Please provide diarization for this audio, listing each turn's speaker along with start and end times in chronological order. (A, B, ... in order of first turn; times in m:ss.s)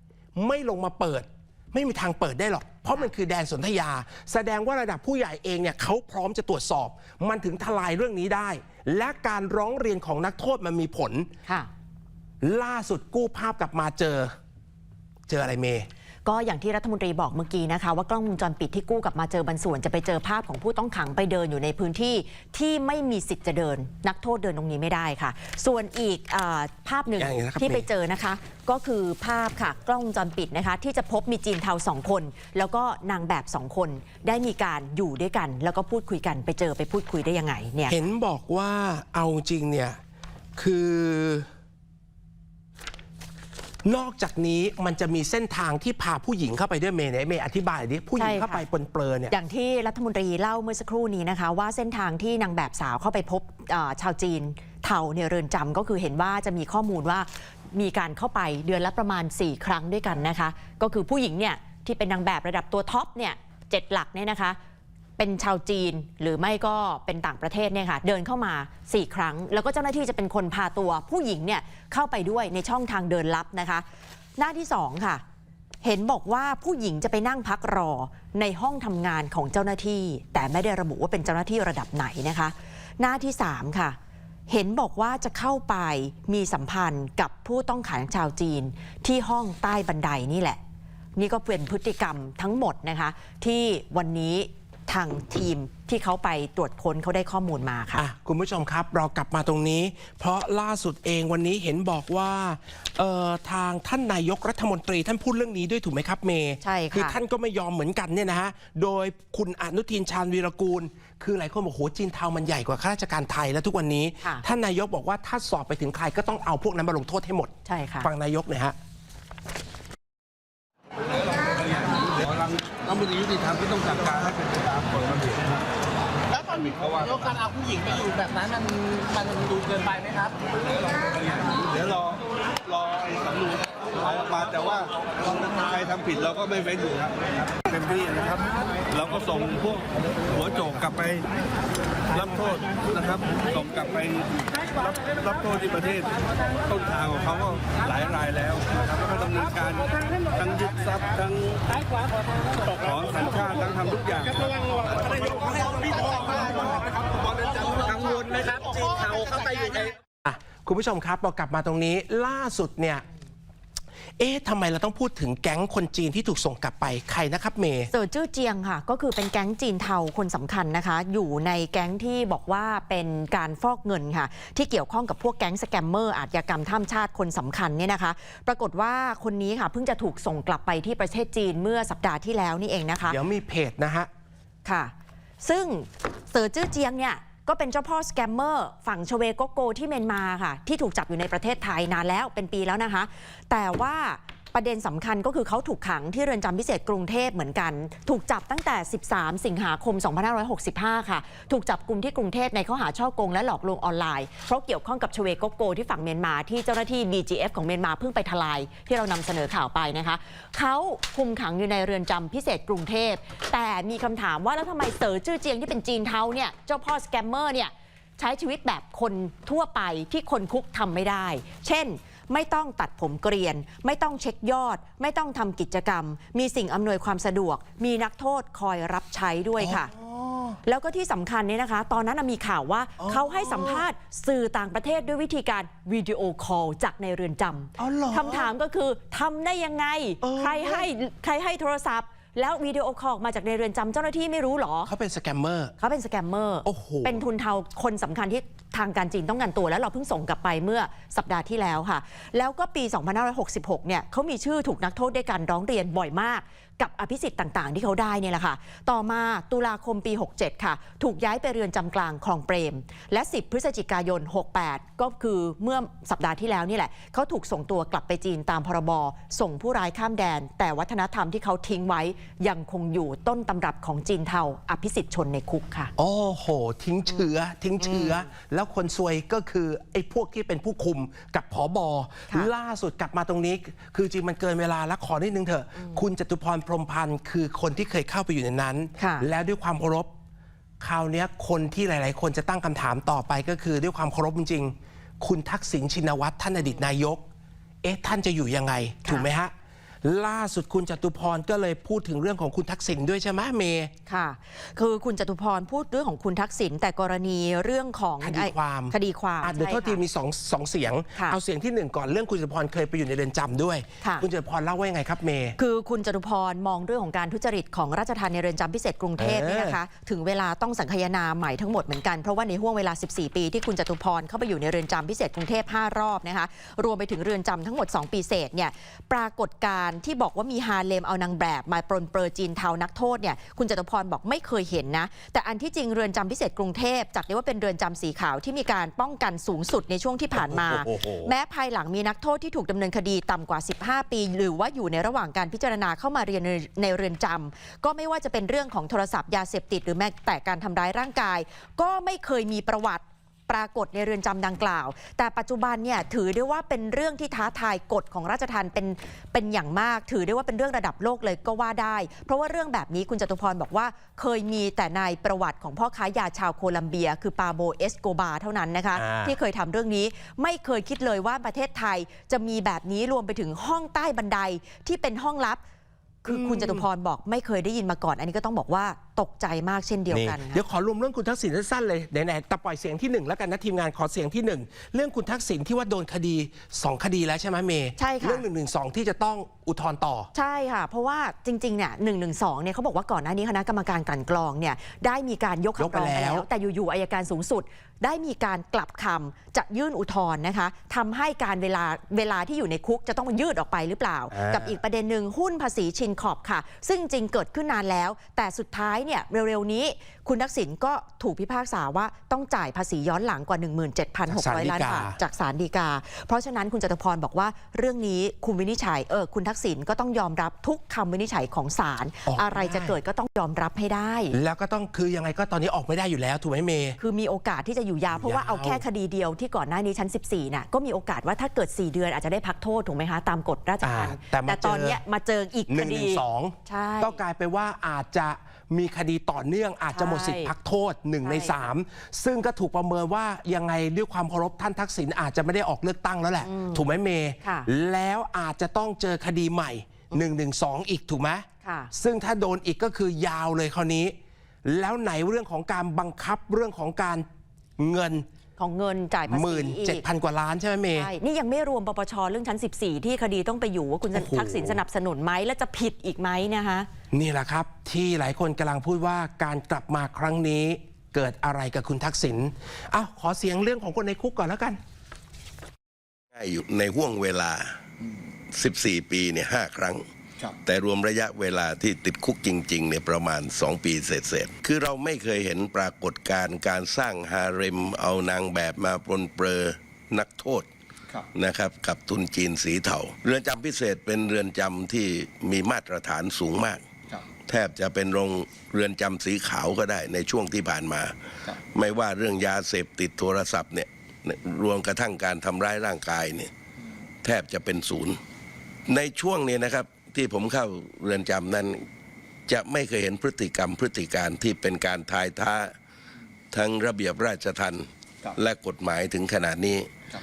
0:00.4-0:11.3 A
0:12.4-0:14.3 A
0:15.3-0:15.9 A
0:16.2-0:38.0 B
0:27.2-0:27.9 A
0:37.9-0:40.0 A
0:40.6-0:41.5 A
0:43.8-0:49.3 A
0:48.2-0:48.6 B
0:49.3-1:04.6 B
1:05.2-1:13.8 B
1:14.4-1:15.2 B
1:15.8-1:24.0 B
1:24.5-1:30.6 B
1:31.2-1:38.0 B
1:38.0-1:58.8 A
1:46.6-1:47.2 B
1:57.6-1:58.1 B
2:02.2-2:05.6 C
2:06.5-2:07.2 C
2:07.3-2:10.2 D
2:10.9-2:21.2 C
2:22.1-2:31.8 C
2:32.7-2:36.8 C
2:36.1-2:36.4 D
2:37.5-2:39.9 D
2:40.2-2:43.0 A
2:44.2-2:47.9 A
2:47.9-3:03.2 B
3:03.1-3:04.1 A
3:04.6-3:49.9 B
3:49.6-3:50.6 A
3:50.6-4:04.9 B
3:53.0-3:53.8 A
3:57.8-3:58.5 A
4:00.2-4:00.9 A
4:04.9-4:05.7 A
4:05.8-4:35.9 B
4:06.6-4:07.2 A
4:36.0-4:50.1 A
4:37.8-4:38.2 B
4:49.0-4:49.2 B
4:50.8-4:57.2 A
4:57.8-4:59.5 A
5:00.0-5:03.9 A
5:04.1-5:10.0 B
5:08.2-5:15.6 A
5:15.6-6:15.6 B
5:19.2-5:19.8 A
5:40.3-5:41.3 A
6:08.9-6:09.4 A
6:16.2-6:20.6 B
6:16.3-6:16.8 A
6:20.1-6:30.3 A
6:28.0-6:28.4 B
6:30.3-7:04.3 B
6:35.8-6:36.4 A
6:44.3-6:44.8 A
6:54.3-6:55.2 A
7:02.2-7:03.0 A
7:04.3-7:07.0 A
7:07.0-7:17.2 B
7:08.1-7:08.8 A
7:13.8-7:15.0 A
7:15.7-7:37.2 A
7:19.9-7:20.5 B
7:21.2-7:21.7 B
7:26.4-7:26.9 B
7:27.4-7:27.7 B
7:31.6-7:31.9 B
7:37.8-7:38.2 A
7:38.6-7:40.0 B
7:39.3-7:41.1 A
7:40.9-7:46.9 B
7:44.1-7:44.8 A
7:47.1-7:54.8 A
7:56.3-7:57.8 E
7:58.5-8:00.0 E
8:00.6-8:10.7 E
8:11.3-8:16.8 E
8:17.5-8:26.5 E
8:27.2-8:28.2 E
8:28.9-8:31.8 E
8:32.5-8:35.7 E
8:36.5-8:39.9 E